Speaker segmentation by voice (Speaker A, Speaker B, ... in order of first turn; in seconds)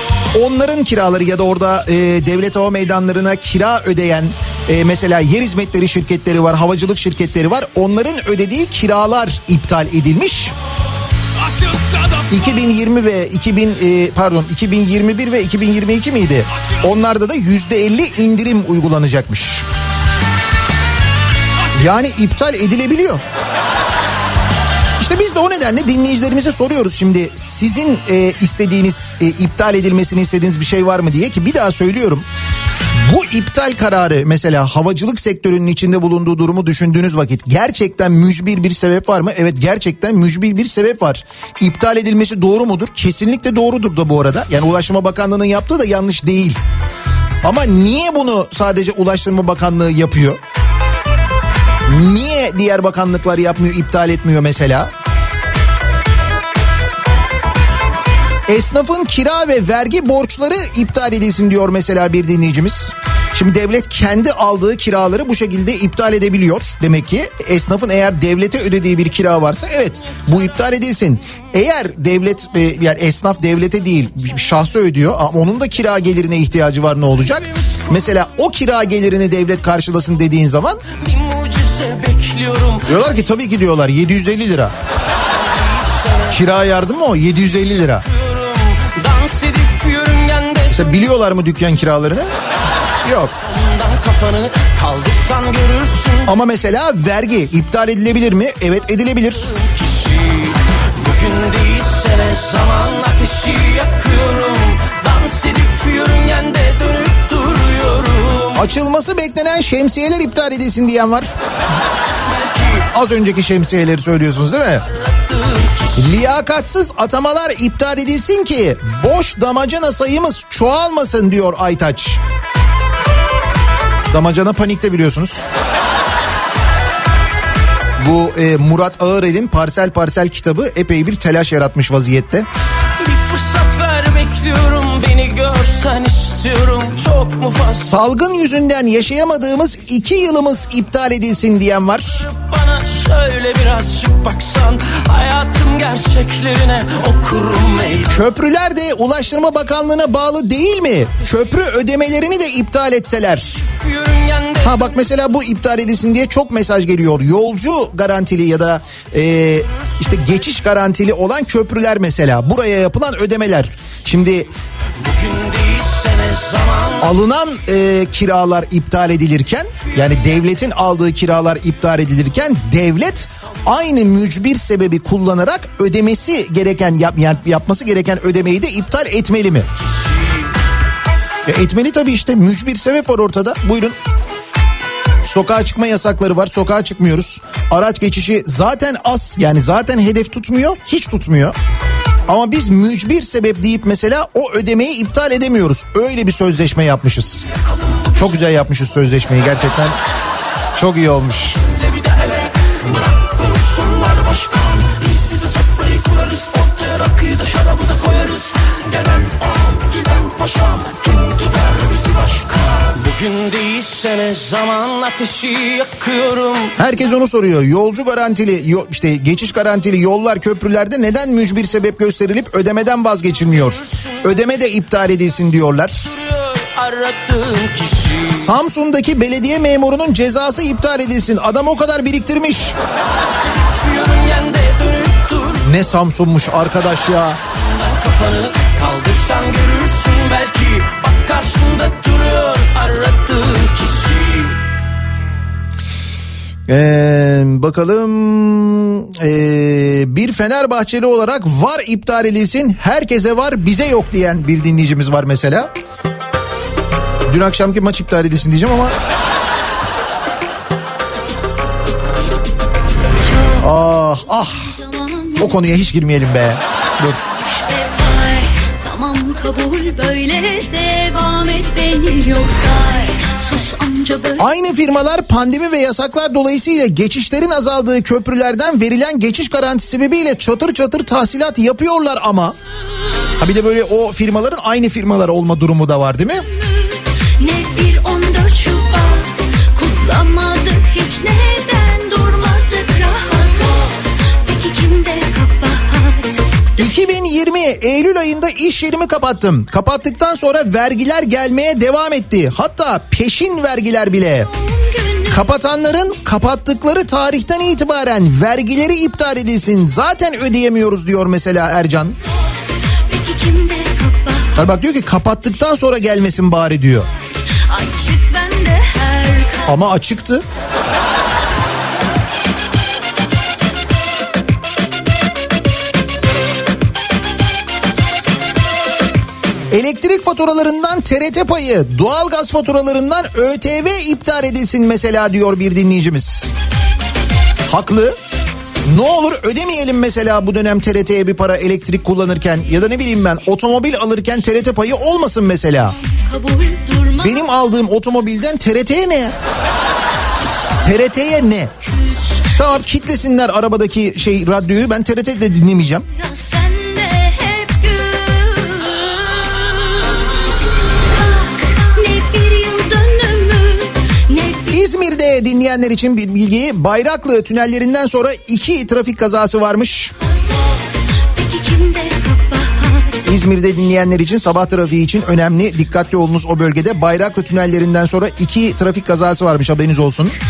Speaker A: 0.3-10.5, 12.3-19.6, 21.7-23.2, 25.0-32.2, 33.0-46.6, 47.4-50.4, 51.9-54.9, 58.5-80.8, 82.8-84.7, 86.3-88.0, 90.7-92.3, 93.0-93.3, 96.2-99.5, 108.5-111.3, 112.9-114.9, 116.0-122.2, 124.1-125.4, 128.0-132.4, 137.6-142.3, 148.1-153.7, 154.6-164.5, 167.0-179.7, 181.4-183.9, 185.2-191.5, 192.3-197.4, 198.2-199.9, 200.8-201.6, 216.8-226.0, 228.2-232.8, 235.6-237.4, 246.7-255.7, 257.3-258.9, 263.6-264.7, 265.4-267.2, 274.4-282.6, 283.4-286.4, 296.8-304.5, 305.2-312.2, 314.5-317.1, 319.6-320.4, 329.7-336.5, 337.7-338.1, 338.9-345.9, 347.2-349.3, 350.7-351.7, 352.5-356.1, 364.7-370.1, 373.2-380.3
Speaker B: 11.3-12.7, 16.6-16.8, 21.6-21.9
Speaker C: 80.9-82.9, 88.1-90.8, 93.5-96.3, 99.6-108.6, 112.3-112.8, 115.0-115.8, 133.0-137.9, 142.3-148.2, 153.7-154.9, 165.0-167.1, 202.0-202.5, 203.2-216.7, 226.1-228.4, 233.7-235.6, 237.7-244.6
Speaker D: 264.6-265.5, 267.4-274.4, 287.4-296.4, 304.6-305.3, 313.1-314.5, 317.7-319.7, 346.3-347.3, 356.2-359.2, 361.3-364.7, 371.4-373.2